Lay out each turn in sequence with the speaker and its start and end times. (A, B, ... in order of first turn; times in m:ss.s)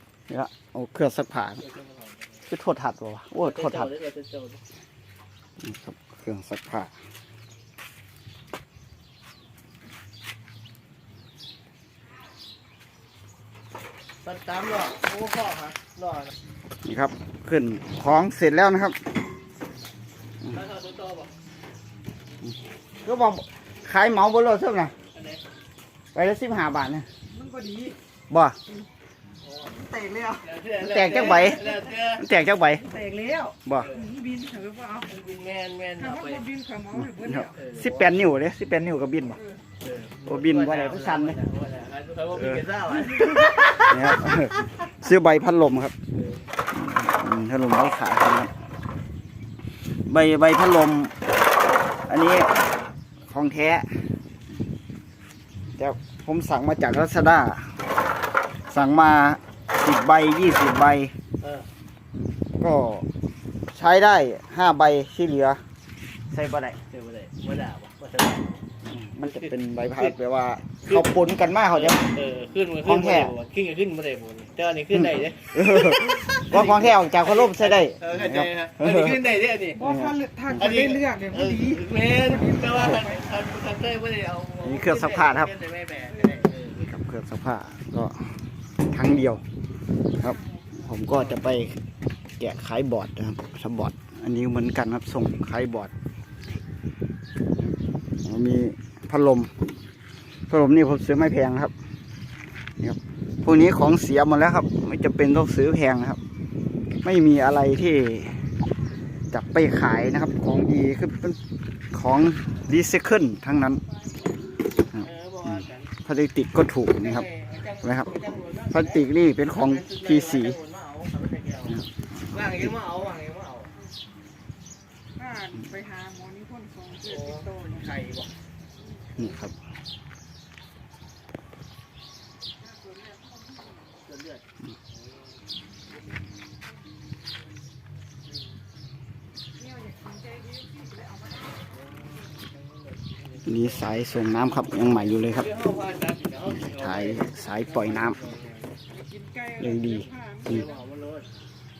0:00.3-0:01.6 A
0:01.6-0:02.4 B
0:02.5-0:03.9 A
0:03.4-0:04.6 B
0:05.6-0:06.9 A
0:14.2-0:16.3 B
0:16.8-0:19.0 A
0:20.4-0:21.3 B
0:23.0-0:24.9 A
0:25.1-0:25.4 B
0:26.1-0:27.1 A
0:27.3-0:28.0 C
0:28.3-0:28.6 A
0:29.4-0:32.2 B
0:29.8-0:30.4 C
0:30.8-0:32.9 A
0:32.8-0:35.1 C
0:33.6-0:33.9 A
0:33.8-0:34.1 B
0:35.0-0:36.5 B
0:36.2-0:37.5 C
0:37.0-0:39.5 A
0:37.5-0:38.3 B
0:39.8-0:44.0 B
0:40.2-0:41.4 A
0:43.7-0:46.0 A
0:46.1-0:46.4 B
0:46.7-0:48.5 A
0:50.0-0:51.1 A
0:52.0-0:52.6 A
0:53.3-0:54.1 A
0:55.8-0:57.8 A
0:58.7-1:01.1 A
1:01.4-1:01.7 B
1:02.6-1:03.1 A
1:03.7-1:05.6 A
1:06.3-1:06.8 A
1:06.9-1:08.6 B
1:08.8-1:12.0 A
1:11.7-1:19.9 B
1:12.8-1:13.3 A
1:15.5-1:19.1 A
1:19.8-1:21.8 C
1:19.8-1:20.2 A
1:20.5-1:26.8 B
1:22.5-1:23.1 C
1:24.6-1:25.5 A
1:26.7-1:29.4 A
1:30.1-1:31.8 A
1:30.4-1:30.7 C
1:32.4-1:35.9 A
1:38.2-1:39.5 A
1:40.5-1:41.7 A
1:42.8-1:46.2 A
1:47.0-1:48.5 A
1:49.3-1:51.4 A
1:51.9-1:53.8 A
1:54.9-1:57.3 A
1:55.0-1:55.9 B
1:57.0-2:03.7 B
1:57.8-1:58.2 A
1:58.7-2:00.6 A
2:01.7-2:02.2 A
2:05.2-2:07.8 C
2:07.0-2:08.3 B
2:09.2-2:09.5 A
2:12.7-2:13.7 C
2:14.0-2:14.4 B
2:19.6-2:21.6 C
2:21.7-2:23.9 B
2:23.4-2:25.5 A
2:24.4-2:28.8 B
2:26.6-2:28.2 A
2:28.9-2:30.7 C
2:29.6-2:30.7 A
2:30.5-2:31.3 B